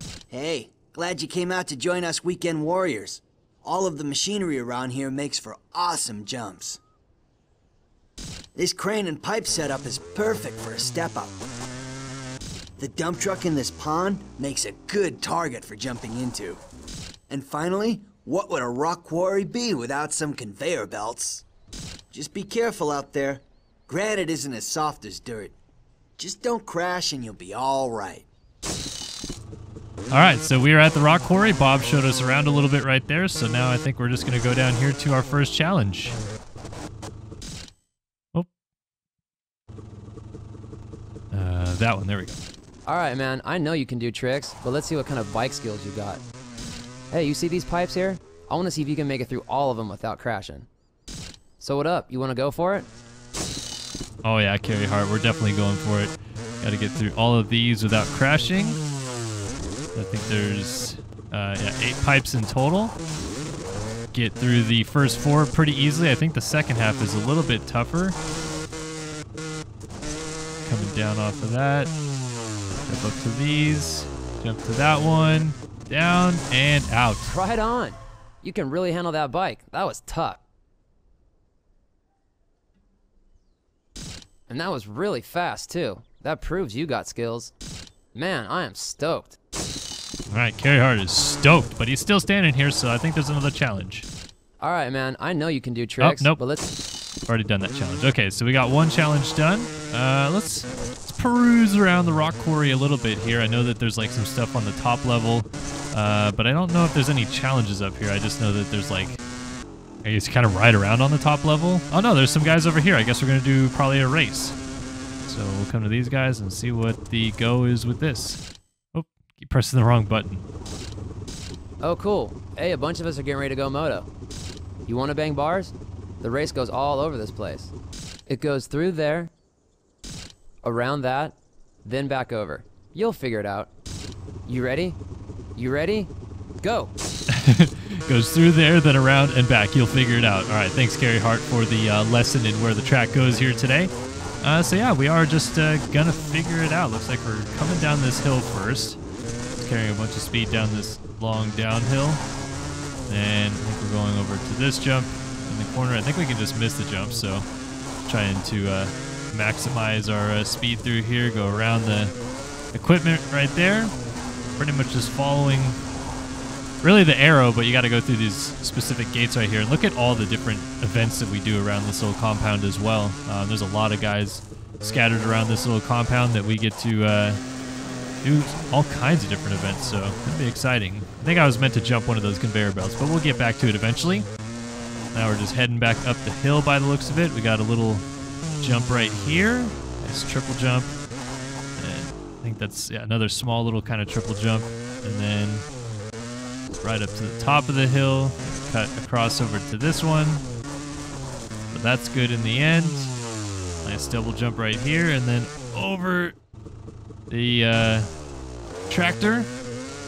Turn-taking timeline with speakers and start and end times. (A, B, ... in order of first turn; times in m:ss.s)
0:00.3-0:06.8 A
0:08.5-0:11.4 A
0:12.8-0:16.6 A
0:17.3-0:21.4 A
0:22.1-0:25.5 A
0:26.2-0:28.2 A
0:30.1-0:36.2 B
0:41.3-0:42.4 B
0:42.8-0:46.2 C
0:47.1-0:50.7 C
0:51.6-0:52.9 C
0:54.2-0:58.8 B
0:59.9-1:02.9 B
1:04.1-1:08.2 B
1:10.6-1:11.9 B
1:12.7-1:17.3 B
1:17.3-1:20.4 C
1:24.5-1:27.5 C
1:28.1-1:29.4 C
1:30.3-1:34.0 B
1:34.6-1:36.7 C
1:36.0-1:36.4 B
1:37.3-1:49.2 B
1:50.0-1:54.6 B
1:55.2-1:58.4 B
1:58.9-2:00.4 B
2:01.8-2:04.1 C
2:04.8-2:07.7 C
2:08.3-2:09.3 C
2:10.6-2:13.7 C
2:14.4-2:15.0 C
2:15.6-2:16.1 C
2:16.6-2:16.9 C
2:17.3-2:29.0 B
2:29.6-2:32.2 B
2:33.1-2:37.5 B
2:38.0-2:42.1 B
2:42.7-2:43.9 B
2:44.6-2:45.8 B
2:46.8-2:57.4 B
2:58.2-3:04.3 B
3:05.1-3:08.0 B
3:08.6-3:10.9 B
3:11.8-3:15.6 B
3:16.8-3:20.4 B
3:21.7-3:23.1 B
3:23.8-3:26.3 B
3:27.3-3:28.1 B
3:28.9-3:29.5 B